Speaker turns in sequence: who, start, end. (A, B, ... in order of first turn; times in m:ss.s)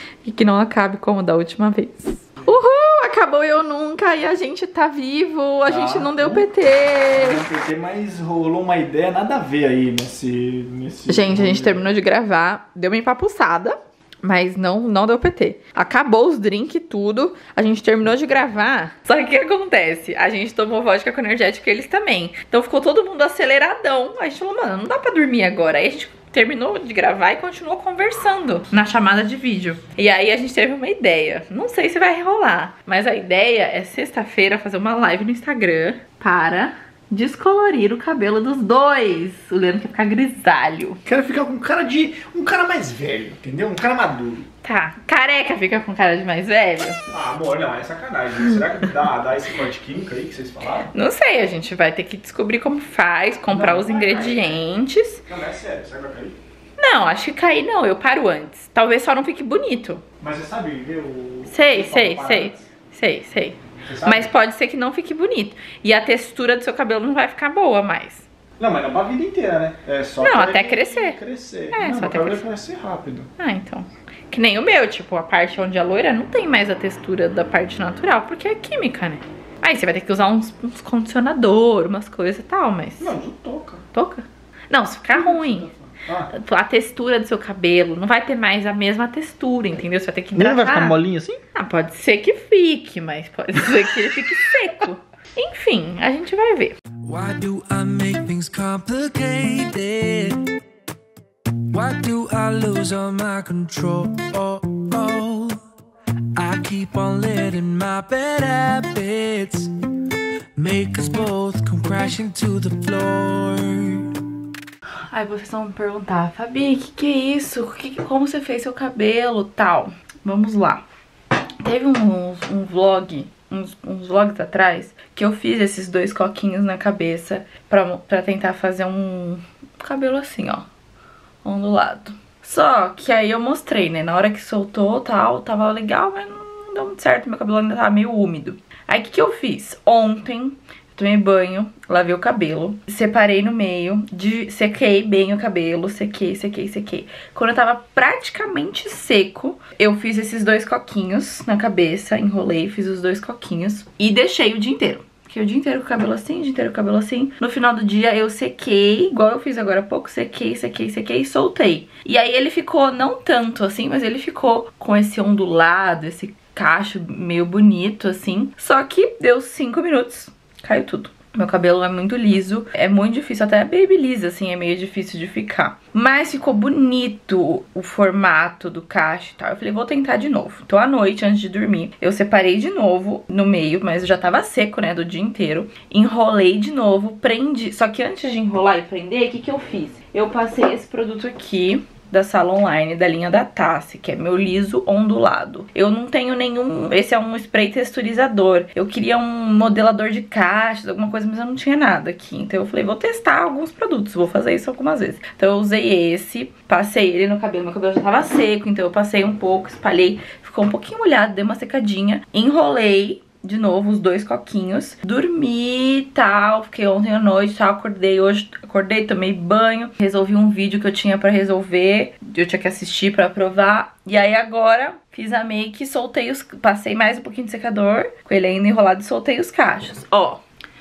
0:00.2-0:07.4 A
0:05.6-0:06.5 B
0:07.1-0:11.8 B
0:11.1-0:41.0 A
0:41.0-0:44.5 B
0:44.6-0:47.0 A
0:47.1-0:50.9 B
0:50.9-0:55.2 A
0:53.5-0:54.5 B
0:55.2-0:56.4 B
0:56.8-1:00.0 A
1:00.2-1:02.7 B
1:01.5-1:08.2 A
1:03.8-1:04.3 B
1:08.6-1:13.3 B
1:10.2-1:11.2 A
1:11.7-1:12.4 A
1:13.4-1:23.1 A
1:23.0-1:23.8 B
1:23.9-1:25.7 A
1:25.1-1:26.3 B
1:26.3-1:31.0 A
1:30.3-1:31.4 B
1:31.5-1:36.8 A
1:37.0-1:40.5 C
1:41.7-1:45.6 C
1:46.3-1:49.7 C
1:50.6-1:54.1 C
1:55.1-2:00.8 A
2:01.6-2:10.7 A
2:11.4-3:50.4 A